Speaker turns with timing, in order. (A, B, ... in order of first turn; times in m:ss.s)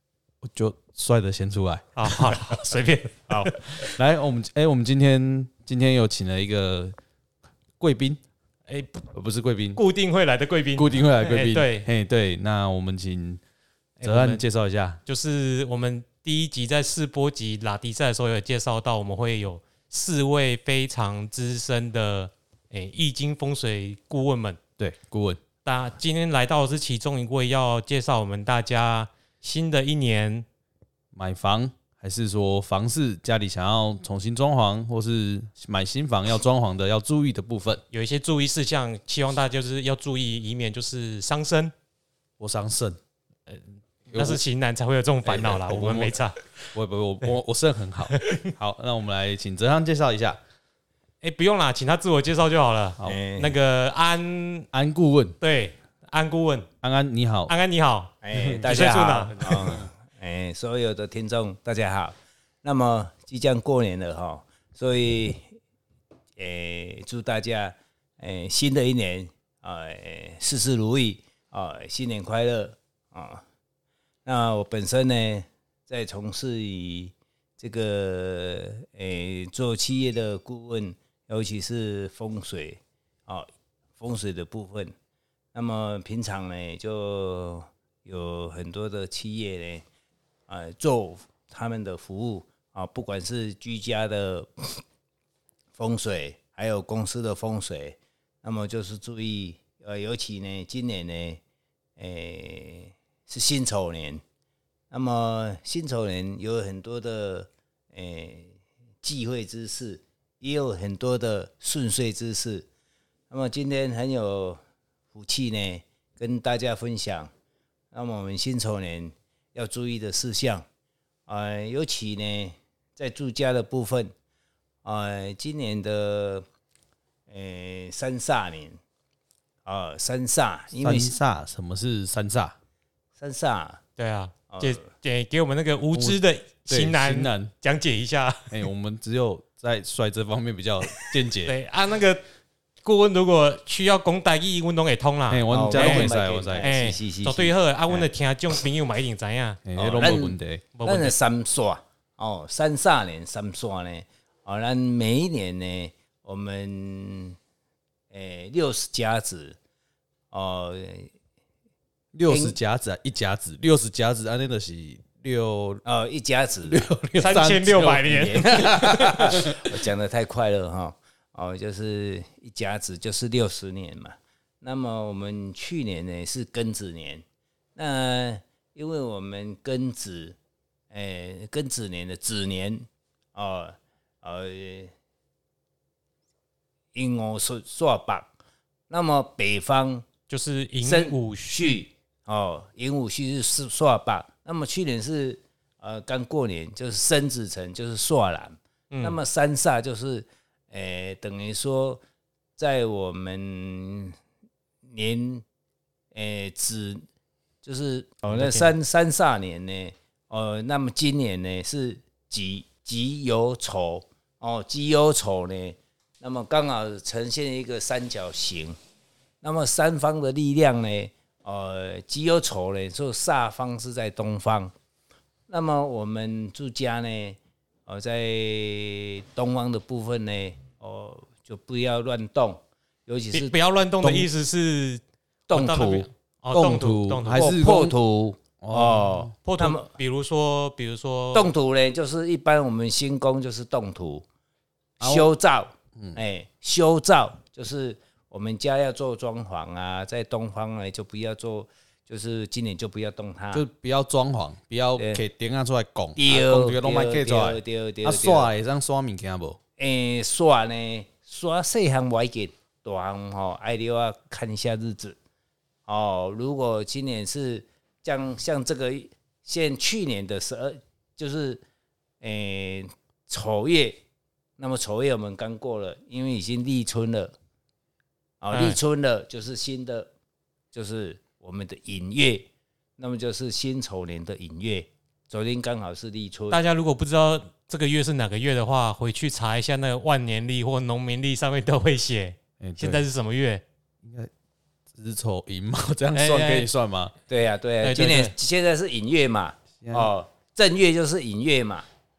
0:00.4-0:02.6 A
0:02.0-0:03.9 B
0:03.3-0:07.0 A
0:07.8-0:08.2 A
0:08.7-0:09.0 B
0:09.1-0:09.8 A
0:09.8-0:11.9 B
0:10.8-0:13.4 A
0:14.0-0:14.4 B
0:14.0-0:15.0 A
0:15.1-0:24.6 B
0:24.8-0:25.4 A
0:25.6-0:30.5 B
0:31.1-0:37.8 A
0:37.9-0:41.7 B
0:42.4-0:43.0 A
0:44.1-0:44.4 A
0:44.1-0:46.7 B
0:45.2-0:46.2 A
0:46.7-0:50.4 A
0:48.1-0:48.5 B
0:51.2-0:54.7 B
0:53.1-0:53.6 C
0:54.7-0:55.4 A
0:55.4-0:56.7 B
0:56.8-0:57.5 A
0:57.5-0:59.9 B
0:58.2-1:05.5 C
1:06.4-1:13.4 C
1:14.2-1:24.9 C
1:25.5-1:29.8 C
1:30.5-1:34.8 C
1:35.8-1:41.4 C
1:42.0-1:44.2 C
1:44.9-1:52.7 C
1:53.3-1:54.6 C
1:55.1-1:57.3 C
1:57.9-2:00.7 C
2:01.3-2:04.1 C
2:04.8-2:06.5 C
2:07.3-2:08.8 C
2:09.7-2:11.2 C
2:10.8-2:12.6 A
2:13.2-2:13.8 C
2:14.0-2:18.6 B
2:14.5-2:14.9 C
2:15.9-2:17.5 A
2:18.5-2:21.6 A
2:21.0-2:22.2 B
2:22.8-2:31.2 B
2:25.3-2:26.7 A
2:25.5-2:27.5 C
2:29.7-2:30.6 A
2:29.9-2:37.4 C
2:38.1-2:39.6 C
2:40.3-2:41.1 C
2:42.1-2:45.8 A
2:42.3-2:42.6 C
2:45.8-2:46.9 C
2:46.7-2:49.6 A
2:47.2-2:49.1 B
2:48.1-2:57.2 C
2:57.8-3:00.4 C
3:00.9-3:04.9 C
3:06.9-3:08.3 C
3:08.9-3:10.1 C
3:10.3-3:11.8 B
3:10.8-3:22.0 C
3:18.9-3:19.2 B
3:22.6-3:24.2 C
3:24.8-3:25.4 C
3:26.1-3:27.0 C
3:27.6-3:38.8 C
3:28.3-3:28.7 B
3:39.4-3:44.7 C
3:45.5-3:53.6 C
3:53.3-3:57.5 B
3:54.0-3:54.3 A
3:55.5-3:56.1 C
3:56.5-3:58.0 A
3:57.3-3:59.9 C
3:58.6-3:59.3 A
3:59.4-4:01.5 B
4:01.3-4:04.3 C
4:05.0-4:13.6 C
4:05.0-4:05.3 A
4:13.5-4:19.6 A
4:15.0-4:15.2 C
4:16.2-4:18.5 C
4:19.8-4:25.2 C
4:25.9-4:31.6 C
4:32.2-4:34.0 C
4:34.6-4:37.3 C
4:38.4-4:40.1 C
4:38.5-4:38.8 B
4:40.7-4:42.5 C
4:43.0-4:46.6 C
4:46.5-4:53.6 B
4:52.6-4:53.0 A
4:54.0-4:54.3 A
4:54.9-4:57.1 A
4:56.2-4:56.7 B
4:57.3-5:01.9 C
4:57.8-4:58.3 B
4:59.8-5:00.1 A